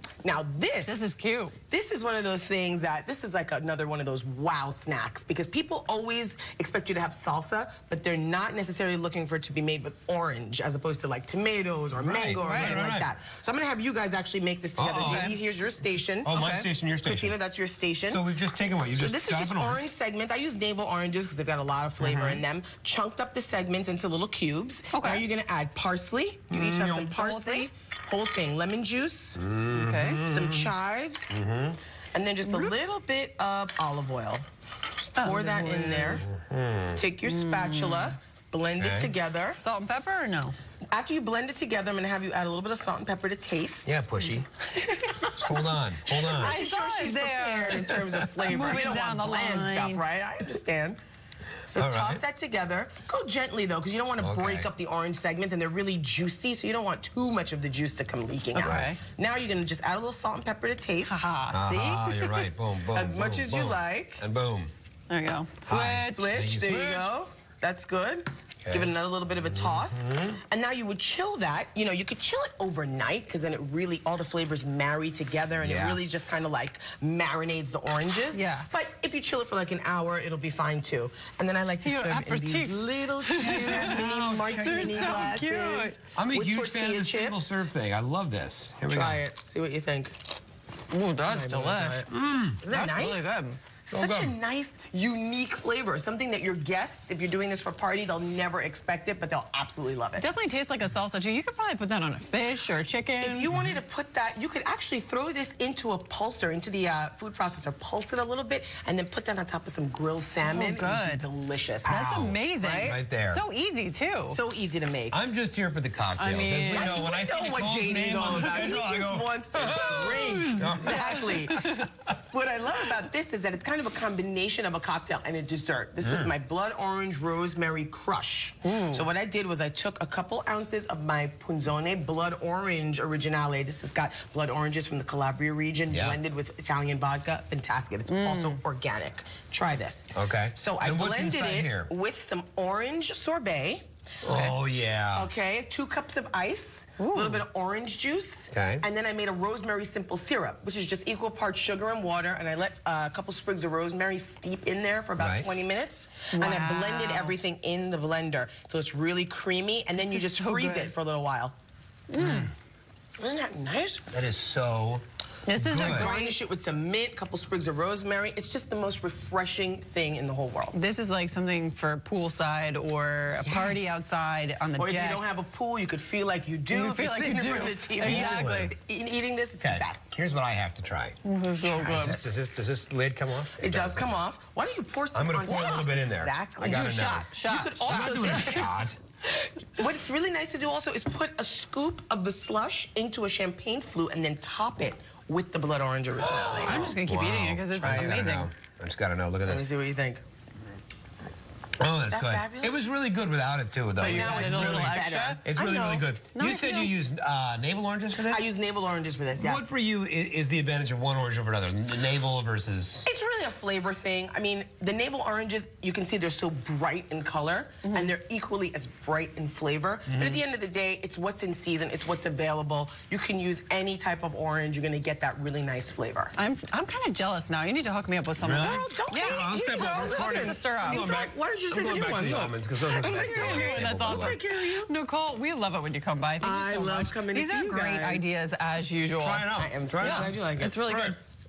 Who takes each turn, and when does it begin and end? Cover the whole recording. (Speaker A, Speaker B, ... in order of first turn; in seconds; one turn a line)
Speaker A: 0.2-1.1
Speaker B: 0.8-1.5
Speaker A: 1.7-16.4
Speaker C: 11.9-13.1
Speaker B: 12.4-12.8
Speaker C: 14.8-15.3
Speaker B: 14.8-15.3
Speaker C: 16.2-17.3
Speaker B: 16.2-16.7
Speaker A: 17.0-18.2
Speaker C: 18.1-19.8
Speaker A: 18.9-29.4
Speaker C: 22.0-22.4
Speaker B: 24.9-25.2
Speaker C: 26.5-27.1
Speaker B: 27.1-27.7
Speaker C: 29.4-30.7
Speaker B: 29.7-30.2
Speaker A: 30.1-31.4
Speaker C: 31.3-31.8
Speaker A: 32.1-34.4
Speaker B: 32.5-32.7
Speaker A: 35.0-36.2
Speaker B: 35.2-36.2
Speaker C: 36.1-37.0
Speaker A: 36.9-39.6
Speaker B: 37.2-38.1
Speaker C: 38.8-39.1
Speaker B: 39.6-40.5
Speaker A: 40.9-44.0
Speaker C: 43.9-44.5
Speaker C: 45.3-46.6
Speaker A: 46.0-51.0
Speaker B: 46.1-50.0
Speaker A: 51.6-61.4
Speaker C: 51.8-52.2
Speaker C: 54.2-54.7
Speaker C: 58.5-58.9
Speaker B: 58.5-59.0
Speaker B: 61.0-62.5
Speaker C: 61.5-64.7
Speaker A: 62.9-64.2
Speaker B: 65.1-66.2
Speaker C: 65.7-67.1
Speaker A: 65.8-87.6
Speaker C: 68.6-70.3
Speaker C: 75.6-76.0
Speaker B: 78.3-78.7
Speaker B: 81.8-86.0
Speaker C: 83.4-85.4
Speaker C: 86.2-89.2
Speaker A: 88.9-90.1
Speaker B: 90.9-92.1
Speaker A: 91.2-92.1
Speaker C: 92.1-92.6
Speaker A: 92.6-93.3
Speaker B: 92.7-93.6
Speaker A: 93.9-100.2
Speaker C: 93.9-94.3
Speaker B: 100.2-103.5
Speaker A: 103.2-113.0
Speaker B: 110.3-111.2
Speaker B: 111.8-114.4
Speaker C: 111.9-113.4
Speaker A: 114.3-115.2
Speaker C: 115.1-121.4
Speaker B: 116.2-117.0
Speaker A: 116.7-144.5
Speaker B: 119.7-121.9
Speaker C: 126.0-126.3
Speaker B: 128.6-129.0
Speaker C: 135.9-136.2
Speaker B: 138.1-138.6
Speaker C: 140.1-141.9
Speaker C: 144.2-145.3
Speaker A: 145.1-161.5
Speaker B: 147.0-147.4
Speaker C: 148.5-148.8
Speaker C: 155.2-155.5
Speaker B: 156.3-157.3
Speaker B: 160.0-160.9
Speaker B: 162.1-162.5
Speaker C: 162.2-162.5
Speaker A: 163.2-164.1
Speaker C: 164.1-165.0
Speaker B: 165.4-166.3
Speaker C: 165.5-166.1
Speaker A: 165.7-170.8
Speaker B: 170.7-175.2
Speaker A: 173.4-174.2
Speaker A: 174.8-180.2
Speaker B: 176.7-178.7
Speaker C: 178.0-178.7
Speaker C: 179.6-184.2
Speaker B: 181.2-182.2
Speaker A: 181.8-182.3
Speaker A: 183.6-188.9
Speaker C: 185.1-187.3
Speaker B: 186.7-188.7
Speaker C: 187.8-189.0
Speaker A: 189.7-197.0
Speaker C: 196.2-199.6
Speaker B: 196.5-198.5
Speaker A: 197.8-198.2
Speaker A: 199.4-200.2
Speaker C: 201.8-208.5
Speaker A: 202.1-202.8
Speaker B: 203.9-205.4
Speaker A: 204.0-206.1
Speaker B: 206.3-206.9
Speaker A: 208.2-209.7
Speaker C: 209.4-213.1
Speaker A: 213.0-226.3
Speaker B: 217.8-218.1
Speaker C: 220.1-220.4
Speaker B: 226.4-231.1
Speaker C: 228.4-234.4
Speaker A: 228.6-234.9
Speaker B: 232.9-239.5
Speaker A: 236.4-238.3
Speaker C: 239.1-240.3
Speaker A: 239.6-240.8
Speaker B: 240.0-241.2
Speaker C: 240.8-241.2